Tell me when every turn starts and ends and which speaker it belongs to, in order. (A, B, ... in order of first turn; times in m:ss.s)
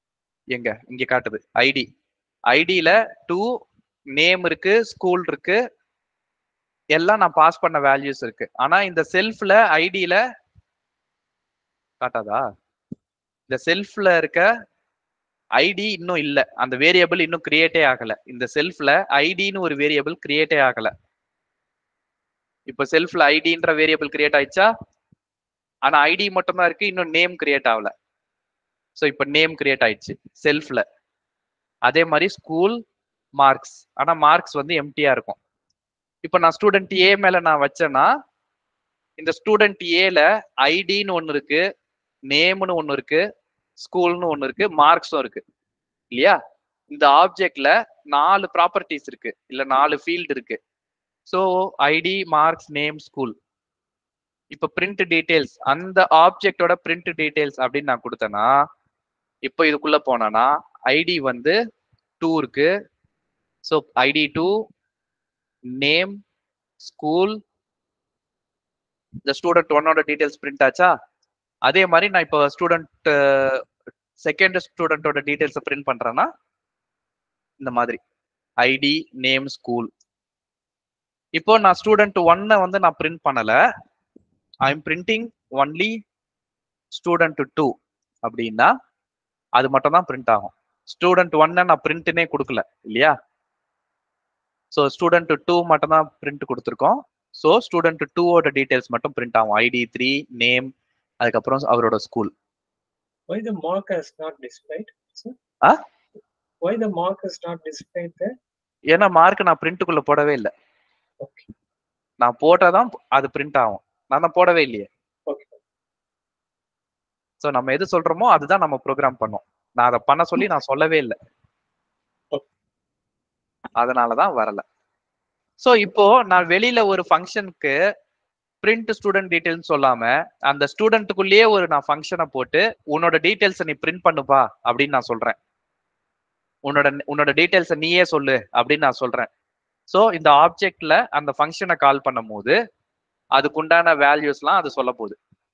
0:00.5-0:01.8 A
0:02.5-0:03.5 A
0:04.1-0:05.6 A
0:06.9-0:10.2 A
0:12.0-0:12.4 A
0:13.5-0:14.5 A
0:15.6-0:20.9 A
0:22.7-0:24.7 A
0:25.8-0:27.9 A
0:29.0-0:30.8 A
0:31.9-0:32.8 A
0:33.4-0:35.4 A
0:36.2-0:38.1 A
0:39.2-0:41.6 A
0:42.3-0:43.2 A
0:43.8-0:45.4 A
0:46.1-0:46.4 A
0:46.9-0:50.6 A
0:51.3-0:53.3 A
0:54.5-0:58.5 A
0:59.4-1:01.6 A
1:02.2-1:02.7 A
1:03.6-1:04.5 A
1:05.7-1:06.2 A
1:06.8-1:07.4 A
1:09.2-1:10.9 A
1:11.6-1:13.6 A
1:14.2-1:16.3 A
1:17.6-1:18.0 A
1:18.6-1:19.9 A
1:21.4-1:23.6 A
1:24.6-1:26.0 A
1:26.9-1:27.7 A
1:28.2-1:28.7 A
1:29.6-1:33.1 A
1:34.7-1:40.7 A
1:41.2-1:42.3 A
1:43.3-1:45.3 B
1:46.6-1:48.3 B
1:48.9-1:50.5 A
1:51.2-1:51.4 B
1:52.2-1:54.9 A
1:55.3-1:55.6 B
1:57.4-2:01.1 A
2:03.8-2:04.6 A
2:05.6-2:07.7 A
2:08.6-2:15.4 A
2:16.6-2:19.3 A
2:19.9-2:22.5 A
2:23.4-2:25.2 A